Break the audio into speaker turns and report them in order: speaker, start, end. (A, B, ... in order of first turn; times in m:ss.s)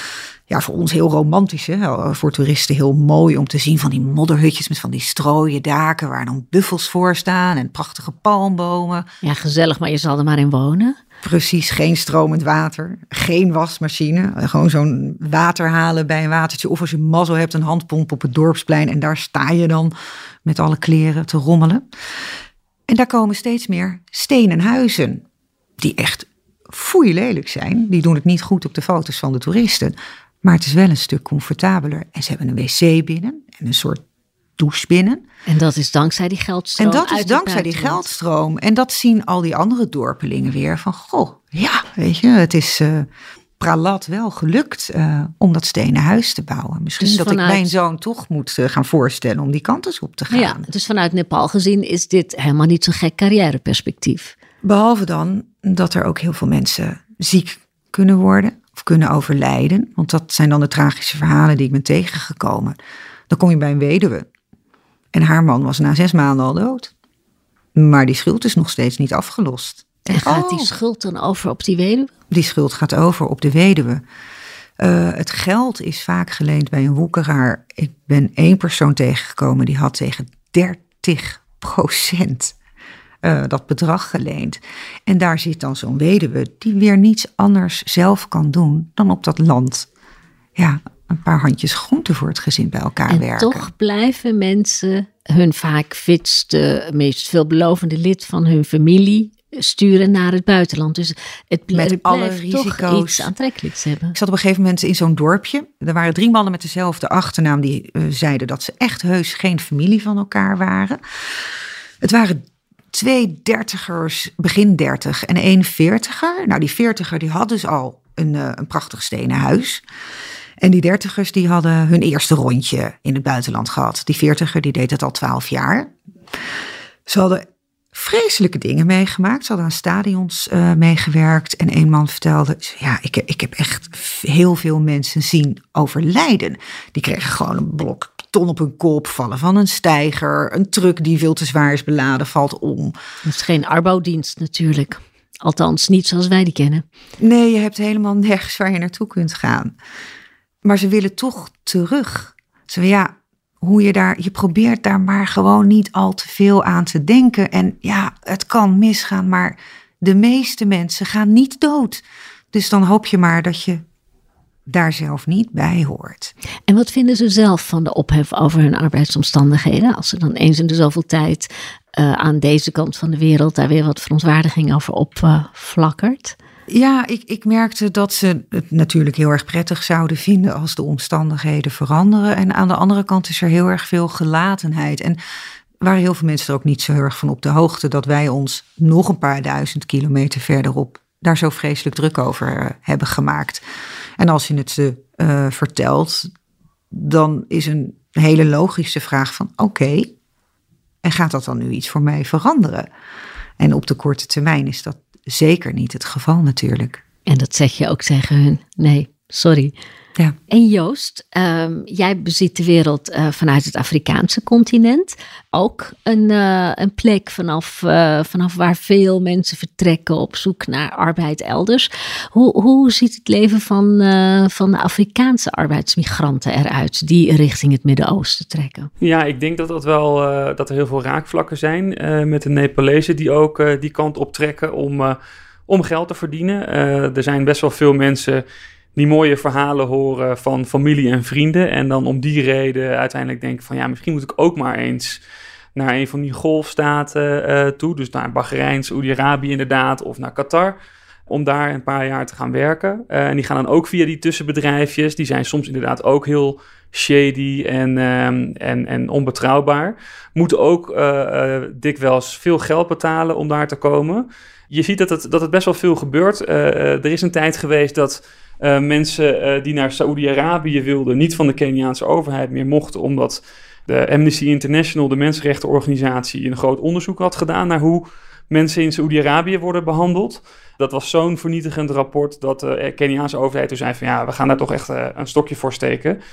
0:00.5-0:09.1 A
0:09.2-0:11.0 B
0:11.2-0:19.9 A
0:20.4-0:21.8 A
0:22.9-0:25.2 A
0:25.8-0:34.0 A
0:34.6-0:35.2 A
0:35.5-0:38.0 B
0:36.8-0:43.1 A
0:43.6-0:50.7 A
0:47.0-0:47.8 B
0:50.3-0:54.4 B
0:54.6-1:02.8 A
1:03.3-1:04.3 A
1:05.1-1:06.9 A
1:07.8-1:10.8 A
1:10.1-1:12.1 B
1:12.3-1:14.0 A
1:14.8-1:22.6 A
1:23.2-1:29.9 A
1:30.6-1:33.7 A
1:33.1-1:44.2 B
1:41.7-1:43.3 A
1:44.1-1:51.0 A
1:52.0-1:59.8 A
2:00.6-2:05.9 A
2:07.1-2:23.0 A
2:23.2-2:26.8 B
2:27.2-2:29.8 A
2:30.6-2:43.8 A
2:44.7-2:46.3 A
2:46.7-2:56.4 B
2:56.7-3:05.2 A
3:05.8-3:13.6 A
3:14.2-3:16.3 A
3:16.9-3:20.1 A
3:21.0-3:22.9 A
3:23.6-3:27.0 A
3:27.3-3:29.7 B
3:30.5-3:48.9 B
3:49.0-3:55.2 C
3:55.7-3:58.4 C
3:59.0-4:05.2 C
4:05.8-4:10.8 C
4:11.3-4:46.2 C